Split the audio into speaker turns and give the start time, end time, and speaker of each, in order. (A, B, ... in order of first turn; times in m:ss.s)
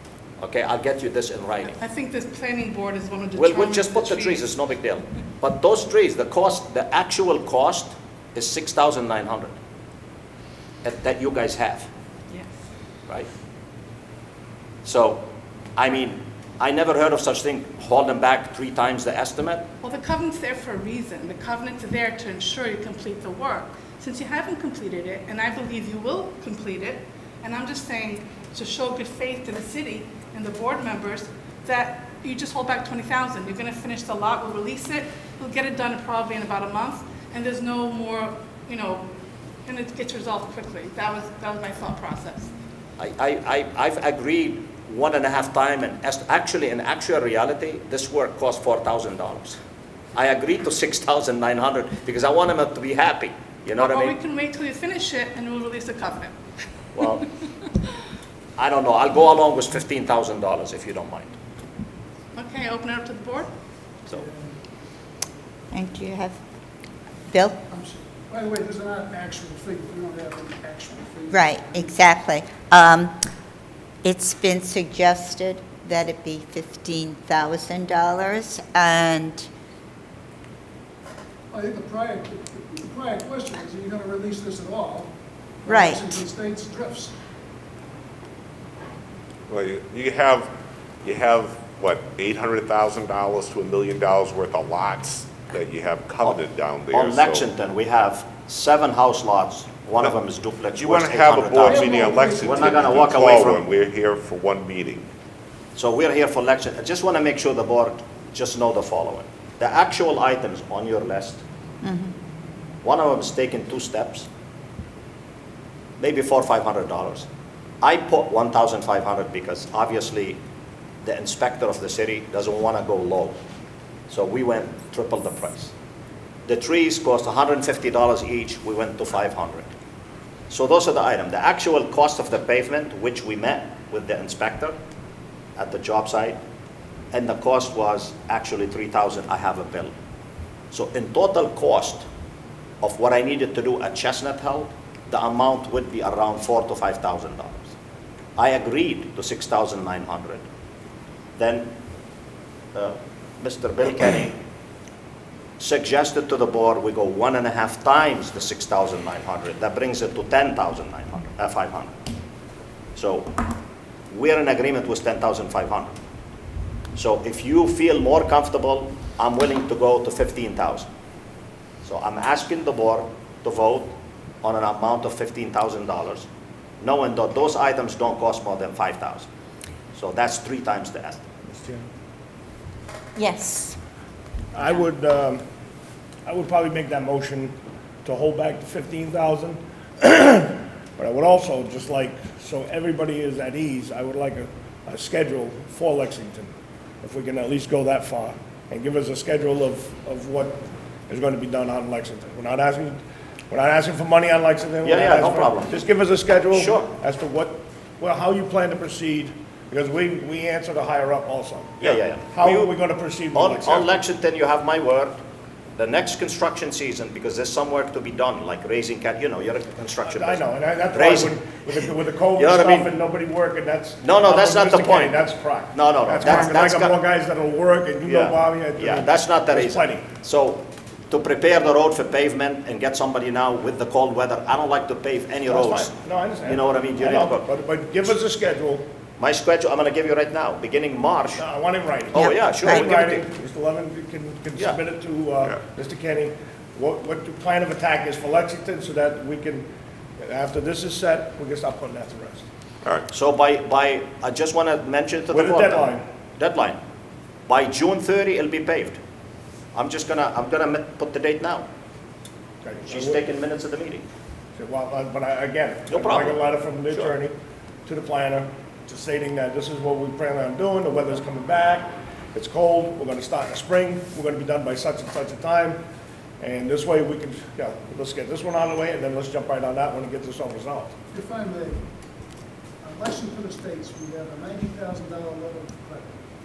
0:00.4-0:01.8 A
0:01.8-0:04.5 B
0:03.4-0:09.6 A
0:10.8-0:11.9 A
0:14.8-0:15.2 A
0:15.8-0:19.7 A
0:19.8-0:39.0 B
0:39.7-0:42.5 B
0:43.0-0:49.6 A
0:50.2-0:54.2 A
0:53.8-0:56.4 B
0:57.0-0:57.2 A
0:58.6-1:01.3 A
1:02.3-1:03.5 B
1:04.1-1:04.5 C
1:05.7-1:06.4 D
1:07.3-1:07.6 D
1:07.7-1:12.0 C
1:11.3-1:13.2 D
1:14.0-1:19.5 D
1:21.5-1:27.2 C
1:25.7-1:26.0 D
1:29.5-1:30.5 E
1:31.0-1:37.3 E
1:36.2-1:43.6 A
1:40.9-1:45.0 E
1:41.6-1:43.2 C
1:45.8-1:51.4 A
1:51.8-1:52.1 D
1:52.8-1:54.3 A
1:56.0-1:57.3 A
1:57.8-2:00.4 A
2:01.0-2:03.4 A
2:04.1-2:05.7 A
2:06.5-2:09.7 A
2:10.5-2:14.8 A
2:15.6-2:16.4 A
2:17.1-2:19.9 A
2:20.7-2:22.1 A
2:22.8-2:27.7 A
2:28.4-2:30.4 A
2:31.4-2:31.7 A
2:32.7-2:34.4 A
2:35.6-2:42.0 A
2:43.0-2:43.4 A
2:44.1-2:46.0 A
2:47.0-2:50.9 A
2:51.8-2:56.3 A
2:56.8-2:59.3 A
2:59.9-3:01.2 A
3:01.5-3:01.9 F
3:03.2-3:03.8 D
3:04.5-3:05.4 F
3:06.3-3:07.5 F
3:08.0-3:23.0 F
3:23.5-3:34.0 F
3:24.8-3:25.7 A
3:26.5-3:26.9 A
3:31.8-3:32.7 A
3:33.3-3:35.2 A
3:35.8-3:41.8 A
3:40.0-3:50.0 F
3:42.4-3:42.9 A
3:44.0-3:47.0 A
3:48.0-3:57.4 A
3:55.5-3:58.8 F
3:59.2-4:01.4 A
4:01.4-4:09.7 F
4:02.1-4:03.2 A
4:02.2-4:02.8 D
4:10.2-4:12.4 F
4:13.1-4:16.8 A
4:15.3-4:16.0 F
4:17.5-4:19.0 A
4:19.7-4:21.7 A
4:22.6-4:23.2 F
4:22.9-4:24.0 A
4:24.6-4:27.3 F
4:25.9-4:26.4 A
4:27.9-4:35.8 F
4:36.4-4:41.0 F
4:41.1-4:41.8 C
4:42.8-4:46.2 C